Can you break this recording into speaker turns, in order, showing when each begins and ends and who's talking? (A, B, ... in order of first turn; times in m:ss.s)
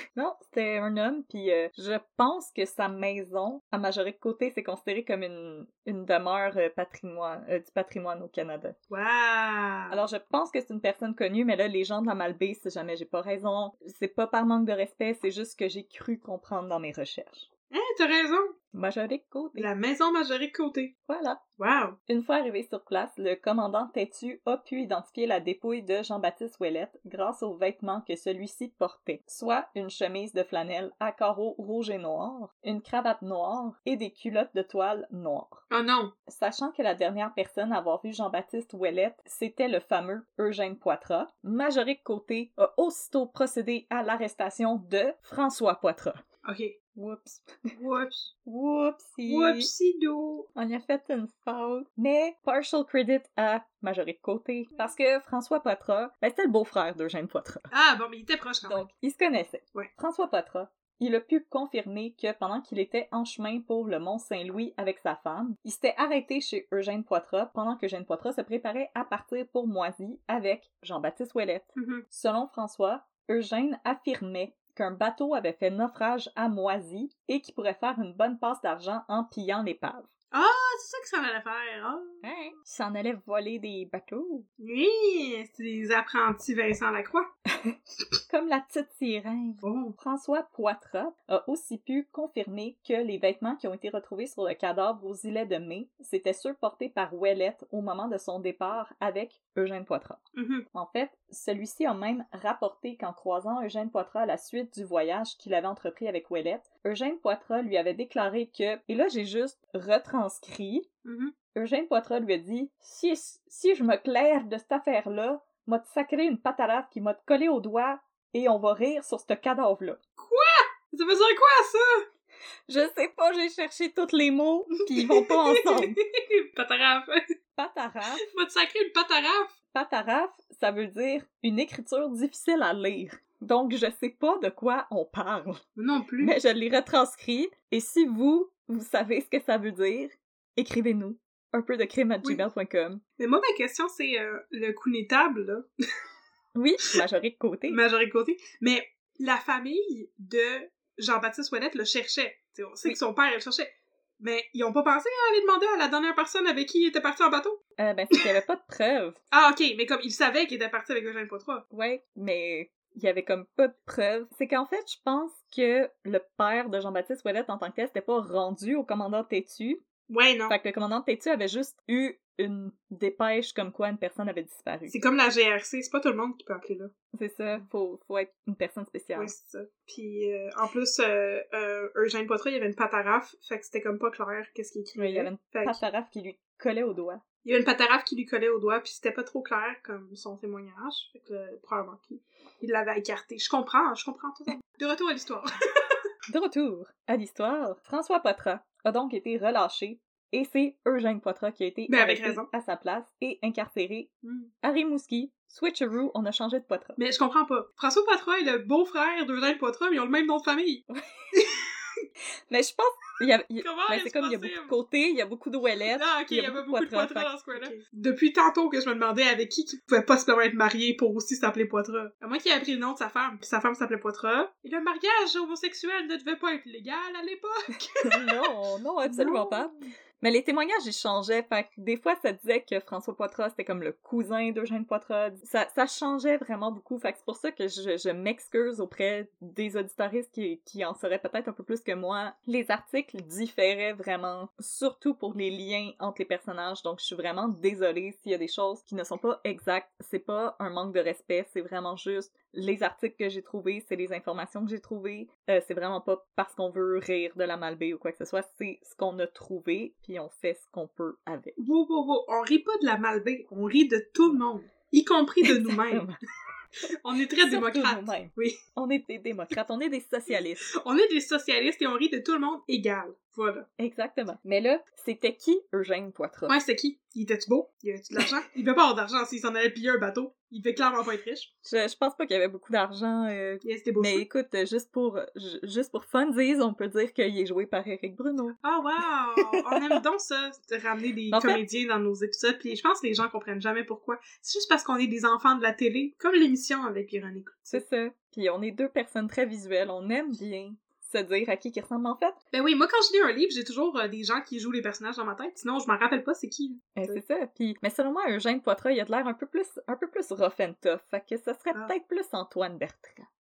0:00.1-0:08.8 A
0:08.9-0:10.0 B
0:09.9-0:17.5 A
0:17.7-0:18.5 B
0:18.7-0:19.7 A
0:19.6-0:20.9 B
0:21.1-0:21.4 A
0:21.6-0:22.0 B
0:22.1-0:35.6 A
0:35.7-0:36.1 B
0:36.3-0:46.2 A
0:46.4-0:46.8 B
0:47.0-0:47.7 A
0:47.7-0:48.3 B
0:48.4-0:49.7 A
0:49.3-0:50.5 B
0:50.6-0:57.7 A
0:57.7-0:58.9 B
0:58.6-1:20.1 A
1:11.8-1:12.0 B
1:20.3-1:22.2 B
1:22.2-1:24.5 A
1:24.6-1:27.3 B
1:27.5-1:27.8 A
1:28.3-1:40.2 A
1:29.6-1:30.0 B
1:40.4-1:40.7 B
1:40.7-1:50.9 A
1:51.0-1:51.3 B
1:51.5-2:00.0 A
2:00.2-2:02.0 B
2:02.7-2:06.0 A
2:05.0-2:07.2 B
2:07.6-2:08.3 A
2:08.3-2:09.5 B
2:09.7-2:15.6 A
2:15.8-2:16.4 B
2:16.2-2:23.0 A
2:23.2-2:25.7 B
2:26.6-2:27.8 A
2:27.7-2:37.6 B
2:37.8-2:39.2 A
2:39.3-2:41.6 B
2:41.7-2:49.8 A
2:50.1-2:50.6 B
2:50.5-2:55.0 A
2:54.9-2:56.9 B
2:57.1-2:59.3 A
2:59.2-3:05.8 B
3:05.0-3:07.2 A
3:07.4-3:16.0 B
3:16.3-3:24.1 A
3:21.9-3:22.5 B
3:24.2-3:24.5 B
3:24.6-3:27.0 A
3:27.0-3:30.8 B
3:30.9-3:31.3 A
3:31.4-3:32.0 B
3:32.5-3:37.8 A
3:33.6-3:34.8 B
3:35.9-3:48.3 B
3:48.0-4:21.7 A
3:49.0-3:49.7 B
4:21.6-4:26.1 B
4:25.4-4:26.2 A
4:27.0-4:28.6 B
4:27.4-4:30.7 A
4:30.8-4:33.7 B
4:33.8-4:36.6 A
4:36.5-4:41.5 B
4:41.6-4:48.6 A
4:43.6-4:44.2 B
4:48.6-4:57.8 B
4:49.4-4:50.0 A
4:51.3-4:51.6 A
4:57.7-5:02.4 A
5:02.5-5:07.2 B
5:07.0-5:13.3 A